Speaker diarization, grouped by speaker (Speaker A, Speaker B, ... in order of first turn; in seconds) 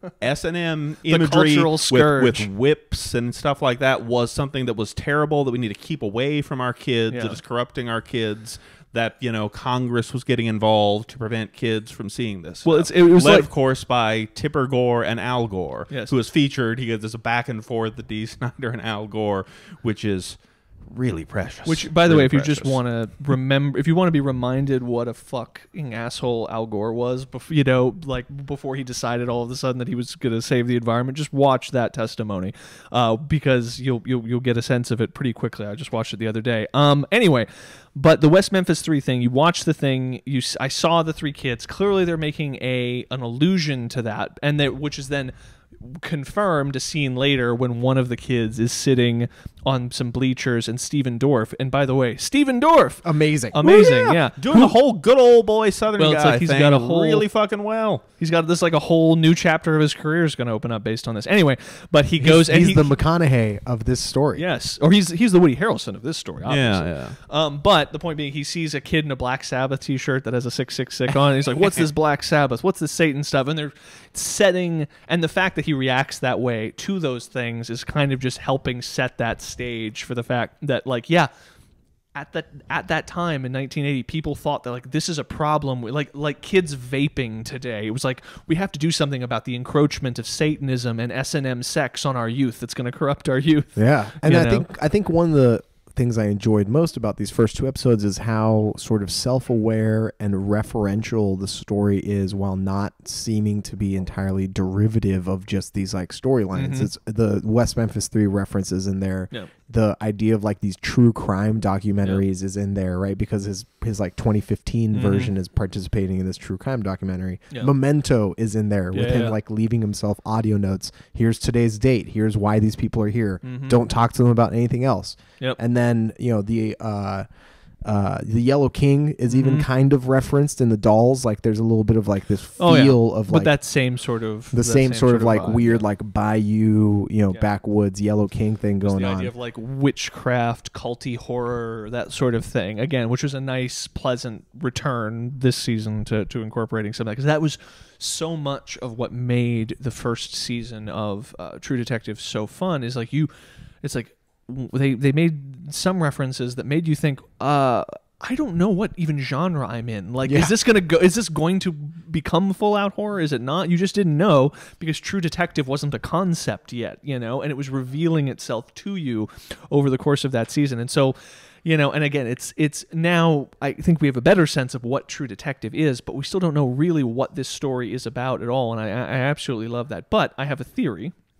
Speaker A: 0.2-22.8, 53.6-58.0, 66.5-67.2, 71.6-71.8
Speaker B: 1.1-2.5, 7.1-7.4, 12.7-13.5, 21.6-54.8, 56.0-57.3, 58.2-62.9, 64.4-81.3, 82.2-94.7, 106.5-106.9, 114.9-115.3, 118.9-119.4, 123.4-123.8, 129.3-129.7, 132.6-135.8, 138.8-153.3, 153.8-181.1
Speaker C: 53.0-53.6, 62.2-64.4, 93.8-127.3, 127.8-133.5, 134.5-139.3, 160.2-160.5